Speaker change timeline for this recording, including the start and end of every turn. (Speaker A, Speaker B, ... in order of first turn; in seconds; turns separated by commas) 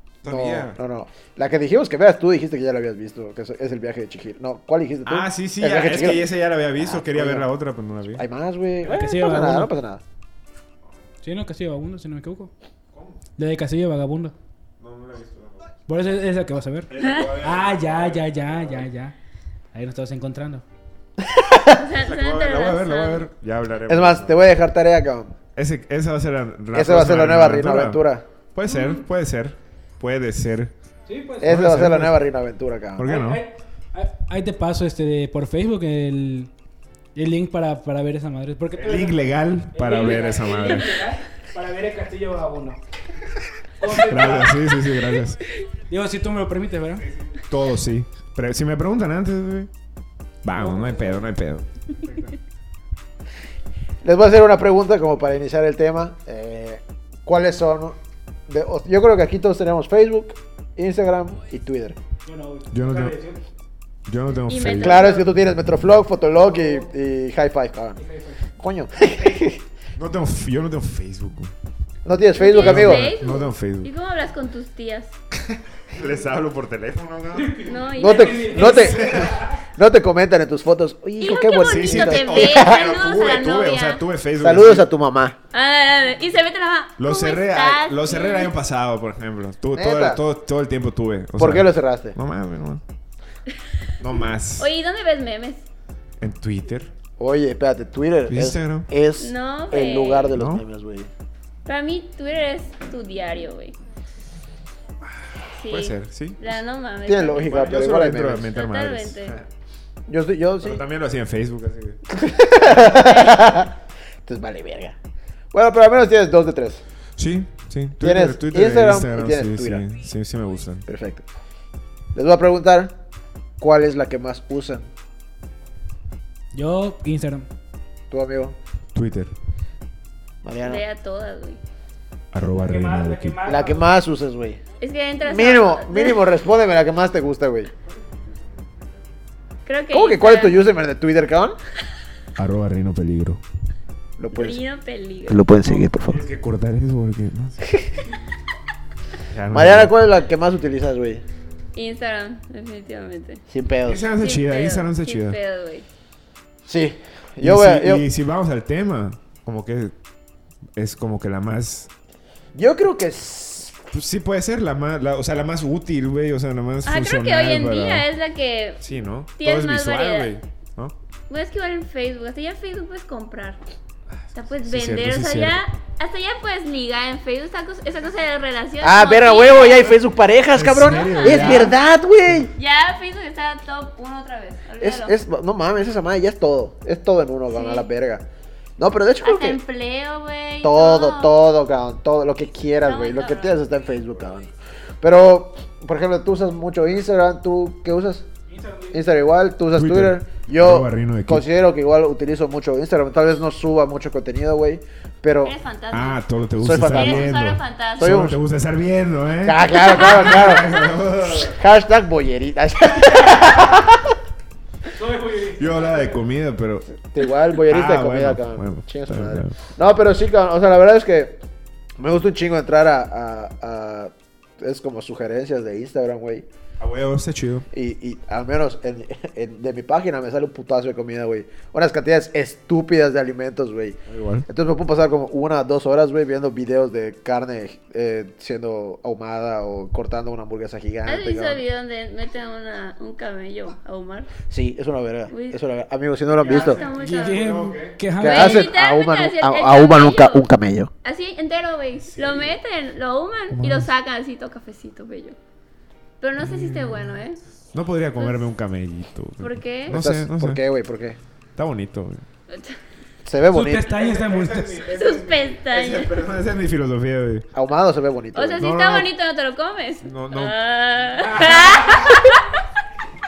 Speaker A: 0.2-0.8, Speaker B: 0.2-7.5, Speaker A: 5.0-8.2, Speaker B: 8.1-10.0, Speaker C: 8.8-9.7, Speaker C: 11.2-12.5, Speaker A: 12.9-13.2, Speaker C: 13.4-14.3, Speaker A: 14.8-15.7, Speaker C: 15.9-19.1, Speaker A: 16.9-18.8, Speaker C: 19.7-20.6, Speaker B: 21.2-21.8, Speaker D: 21.7-23.3, Speaker A: 22.0-24.4, Speaker B: 23.9-25.4, Speaker A: 25.5-30.7, Speaker B: 26.7-28.2, Speaker D: 28.6-29.0, Speaker C: 31.1-31.6, Speaker B: 31.4-33.1, Speaker A: 31.4-32.1, Speaker A: 33.0-33.4, Speaker C: 33.0-36.5, Speaker C: 37.1-42.8, Speaker A: 38.8-41.0, Speaker C: 43.8-44.7, Speaker A: 43.8-45.4, Speaker C: 45.9-47.0, Speaker A: 47.0-49.7, Speaker A: 50.4-51.6, Speaker C: 50.5-51.3, Speaker C: 51.9-52.4, Speaker B: 54.0-58.0, Speaker B: 58.5-62.0, Speaker C: 62.2-63.4, Speaker A: 62.7-63.2, Speaker A: 64.0-65.2, Speaker D: 64.5-65.3, Speaker B: 64.6-68.0, Speaker C: 66.4-66.9, Speaker C: 68.0-68.5, Speaker B: 68.5-69.6, Speaker A: 70.0-71.5, Speaker B: 72.0-73.1, Speaker D: 72.4-75.2, Speaker A: 72.6-73.9, Speaker A: 75.5-77.6, Speaker C: 77.3-79.6, Speaker D: 77.6-79.0, Speaker B: 78.0-82.9, Speaker A: 78.5-79.4, Speaker D: 81.2-84.0, Speaker A: 81.6-84.8, Speaker B: 84.4-85.4, Speaker D: 85.5-88.5, Speaker A: 87.0-92.8, Speaker B: 89.7-90.2, Speaker B: 91.4-92.2, Speaker A: 94.0-94.7, Speaker D: 94.6-95.6, Speaker A: 96.2-96.9, Speaker B: 97.2-101.1, Speaker A: 98.3-98.9, Speaker D: 99.2-100.3, Speaker A: 100.3-100.6, Speaker D: 101.7-103.7, Speaker D: 105.6-107.9, Speaker A: 105.7-106.4, Speaker B: 107.0-108.5, Speaker A: 107.4-109.5, Speaker D: 108.5-109.4, Speaker B: 110.1-110.8, Speaker A: 110.6-112.0, Speaker B: 112.1-113.7, Speaker D: 112.7-113.5, Speaker B: 114.2-115.0, Speaker B: 115.5-116.8, Speaker A: 117.2-120.8, Speaker B: 118.0-119.8, Speaker B: 120.9-121.2, Speaker B: 122.1-122.9, Speaker B: 123.6-124.9, Speaker C: 126.5-127.5, Speaker B: 128.1-128.5, Speaker A: 128.9-129.3, Speaker B: 130.4-130.8, Speaker D: 130.6-131.6, Speaker A: 132.3-133.4, Speaker C: 132.5-133.9, Speaker B: 133.4-134.6, Speaker D: 134.8-136.2, Speaker B: 135.2-137.7, Speaker D: 139.7-140.7, Speaker B: 139.9-141.6, Speaker A: 142.4-143.4, Speaker B: 144.2-144.6, Speaker D: 144.3-145.5, Speaker B: 145.3-146.2, Speaker A: 145.6-147.8, Speaker A: 149.3-149.9, Speaker B: 149.5-151.2, Speaker D: 151.7-153.4, Speaker B: 153.5-154.1, Speaker A: 153.8-155.4, Speaker D: 154.2-155.8, Speaker B: 156.7-158.0, Speaker A: 157.4-159.9, Speaker A: 160.8-161.9, Speaker B: 162.5-163.8, Speaker A: 163.9-168.0, Speaker D: 166.8-168.8, Speaker A: 168.8-170.9, Speaker D: 169.4-170.3, Speaker D: 171.3-173.6, Speaker A: 174.2-175.6, Speaker D: 174.3-179.9, Speaker B: 178.8-182.5, Speaker A: 180.5-181.7, Speaker D: 180.8-181.7, Speaker D: 182.6-185.1, Speaker B: 184.8-188.2, Speaker D: 187.5-187.9, Speaker B: 188.8-189.6, Speaker D: 189.2-191.3, Speaker B: 190.6-194.5, Speaker D: 192.8-193.6, Speaker B: 195.0-198.3, Speaker C: 198.5-199.0, Speaker B: 198.9-205.5, Speaker A: 199.7-201.4, Speaker D: 205.4-206.2, Speaker A: 205.9-211.6, Speaker B: 206.6-207.4, Speaker D: 206.8-208.2, Speaker B: 208.0-208.4, Speaker B: 209.4-214.1, Speaker D: 209.9-210.8, Speaker C: 214.9-216.0, Speaker A: 215.6-216.9, Speaker B: 217.0-221.4, Speaker A: 217.7-219.5, Speaker B: 222.0-226.4, Speaker A: 226.8-227.7, Speaker B: 227.7-241.6, Speaker A: 234.1-234.4, Speaker D: 241.1-244.3, Speaker B: 244.5-246.8, Speaker D: 245.3-245.6, Speaker D: 246.4-247.7, Speaker C: 246.5-248.7, Speaker A: 246.6-248.0, Speaker B: 248.2-250.9, Speaker D: 248.2-250.5, Speaker D: 251.0-255.3, Speaker A: 252.1-252.5, Speaker A: 253.5-253.8, Speaker D: 256.2-257.4, Speaker A: 256.4-257.1, Speaker A: 257.7-260.6, Speaker D: 258.2-258.5, Speaker D: 259.4-260.0, Speaker B: 259.9-261.2, Speaker A: 261.6-262.2, Speaker D: 262.5-262.8, Speaker B: 263.2-263.9, Speaker C: 263.5-264.8, Speaker A: 263.9-267.5, Speaker D: 264.9-266.2, Speaker B: 267.5-268.7, Speaker D: 268.3-272.4, Speaker A: 268.6-269.1, Speaker A: 270.0-270.5, Speaker C: 271.3-272.0